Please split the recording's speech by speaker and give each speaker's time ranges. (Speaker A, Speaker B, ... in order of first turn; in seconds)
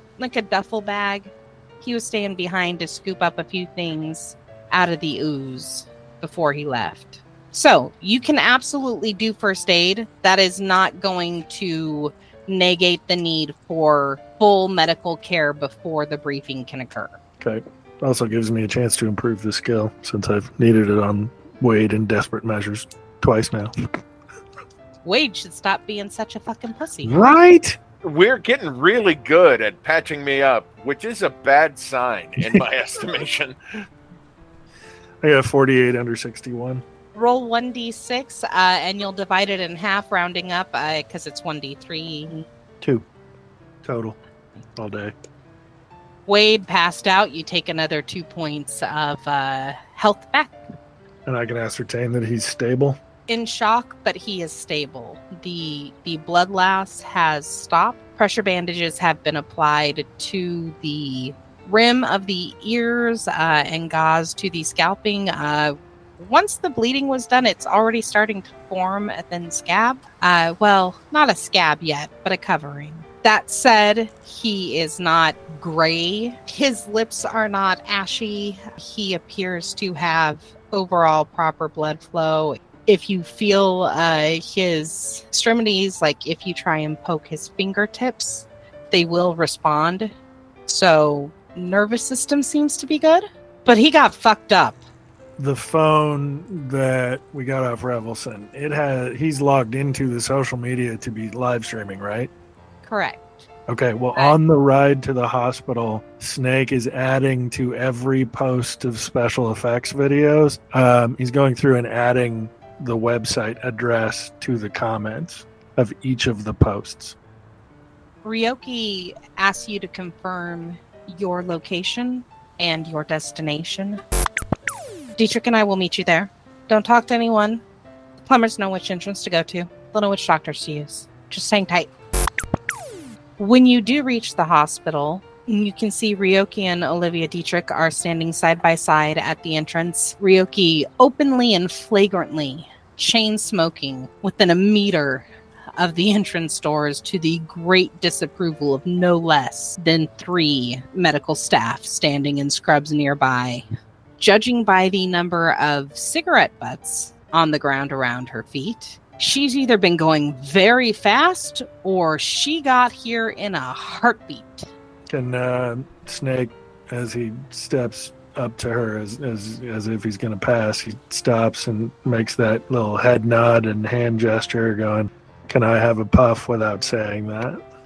Speaker A: 0.2-17.2, 25.1-27.4, 37.1-42.5, 46.3-50.6, 53.3-90.1, 90.7-94.8, 102.8-103.4, 118.2-124.0, 125.2-127.6, 128.2-131.9, 133.4-145.3, 145.8-153.7, 154.2-164.7
Speaker B: 17.4-23.7, 27.1-27.8, 32.4-32.6, 35.2-36.8, 42.8-43.1, 43.8-44.2, 44.8-45.1, 51.3-53.0, 95.4-102.3, 103.7-117.2, 165.1-177.6
Speaker C: 28.0-33.6